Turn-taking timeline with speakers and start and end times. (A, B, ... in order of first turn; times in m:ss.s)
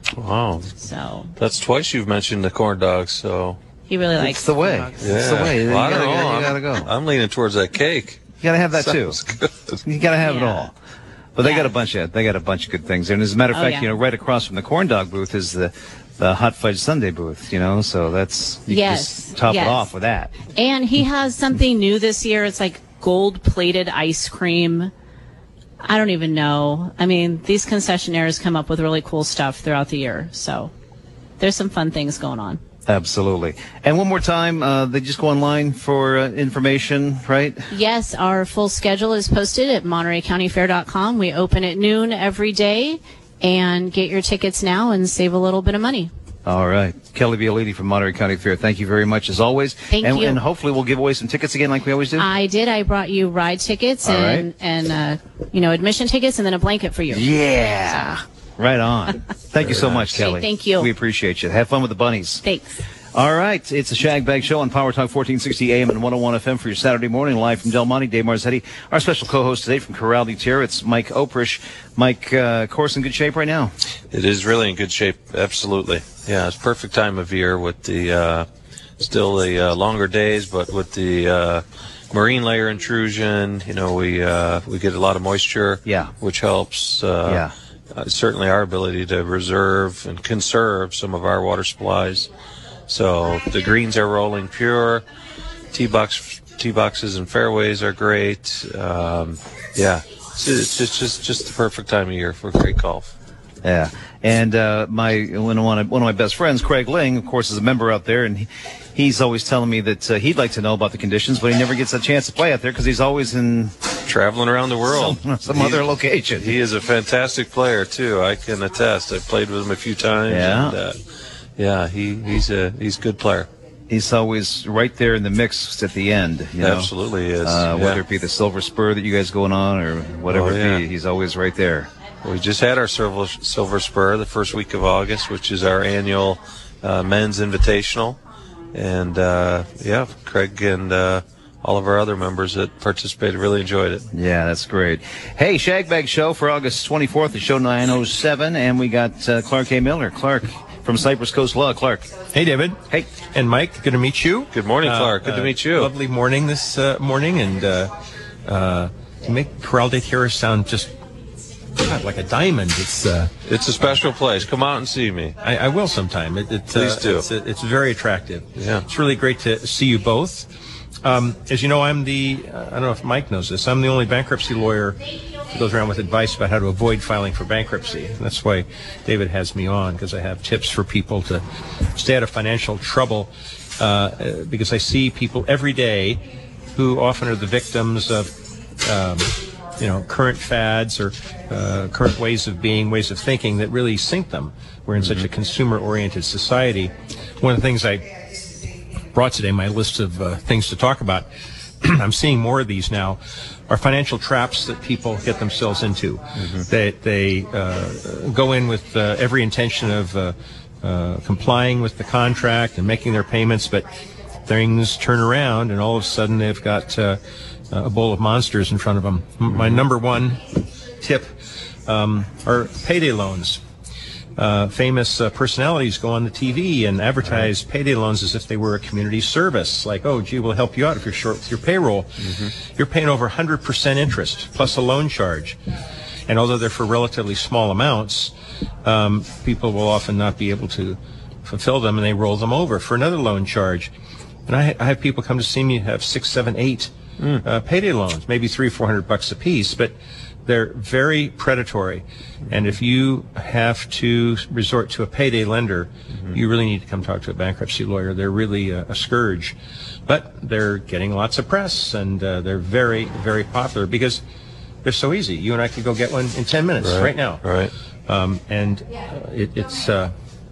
0:00.2-0:00.7 A
0:00.8-0:01.3 B
0:01.4-0:03.6 A
0:03.9-0:04.9 B
0:04.2-0:06.9 C
0:05.0-0:09.8 A
0:08.4-0:09.2 C
0:09.8-0:10.7 C
0:10.2-0:10.7 B
0:11.4-0:20.3 C
0:11.4-0:11.7 B
0:13.5-0:13.9 B
0:18.7-0:19.9 B
0:20.5-0:24.9 B
0:25.8-0:30.7 B
0:31.4-0:32.6 B
0:32.8-0:37.7 C
0:37.7-0:46.1 B
0:46.4-0:52.3 C
0:49.9-0:50.4 B
0:52.2-0:57.2 B
0:54.0-0:54.5 C
0:57.1-1:02.4 C
1:00.0-1:00.9 B
1:02.4-1:02.8 B
1:03.1-1:13.7 C
1:14.1-1:18.5 A
1:19.0-1:32.3 A
1:25.8-1:26.1 C
1:27.2-1:27.5 C
1:32.9-1:35.0 A
1:35.7-1:43.1 A
1:43.6-1:53.8 C
1:54.0-1:55.8 A
1:54.9-1:56.5 C
1:56.4-2:01.0 A
2:00.3-2:00.8 C
2:01.6-2:03.5 A
2:03.9-2:06.9 C
2:06.6-2:08.0 A
2:07.4-2:11.9 C
2:10.3-2:10.8 A
2:12.2-2:18.2 A
2:18.7-2:24.0 A
2:24.1-2:32.1 C
2:32.3-2:37.9 D
2:32.9-2:33.1 C
2:34.5-2:35.9 A
2:38.4-2:41.0 D
2:41.8-2:44.0 D
2:43.4-2:45.4 A
2:45.4-2:50.5 D
2:46.7-2:47.3 A
2:48.5-2:48.9 A
2:51.0-3:18.1 D
3:15.0-3:15.3 A
3:19.1-3:21.3 D
3:21.8-3:33.9 D
3:34.4-3:40.5 D
3:39.5-3:39.8 A
3:41.0-3:41.3 D
3:41.8-3:43.6 D
3:44.4-3:52.1 D
3:52.2-3:52.5 A
3:52.7-3:55.6 D
3:56.3-3:58.3 D
3:58.8-4:03.9 D
4:04.5-4:19.5 D
4:07.2-4:07.4 A
4:20.1-4:24.2 D
4:24.8-4:27.4 D
4:26.8-4:27.7 A
4:28.1-4:30.1 D